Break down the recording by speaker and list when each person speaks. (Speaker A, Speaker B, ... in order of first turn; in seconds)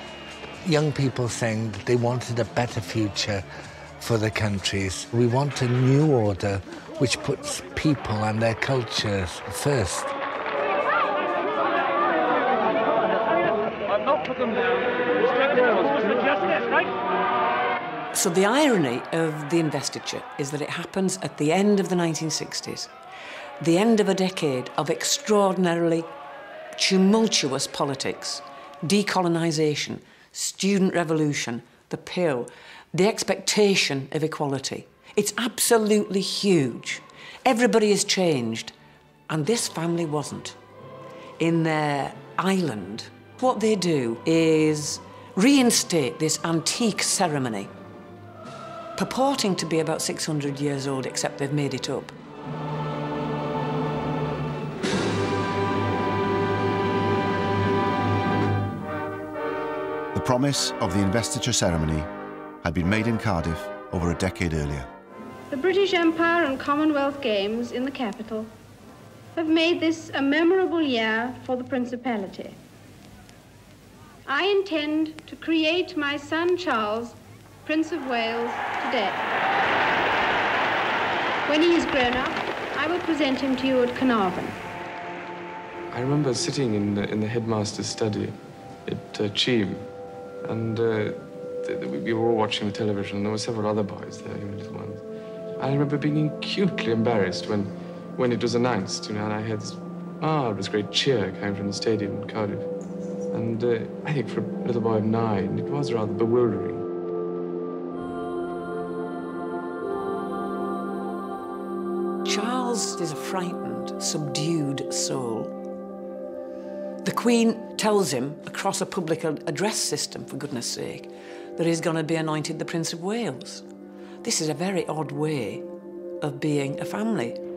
Speaker A: 0.6-3.4, 4.0-10.1
Speaker B: 18.1-22.9, 23.6-26.1, 26.7-38.7, 39.3-40.5, 41.4-47.7, 49.0-52.1, 112.2-115.5, 117.0-123.7, 124.2-125.7, 126.2-127.4
Speaker C: 60.1-62.1, 62.6-64.9
Speaker D: 65.5-68.5, 69.3-72.6, 74.3-79.2, 81.5-84.6
Speaker E: 85.9-89.9, 90.4-95.0, 95.6-102.7, 103.3-106.8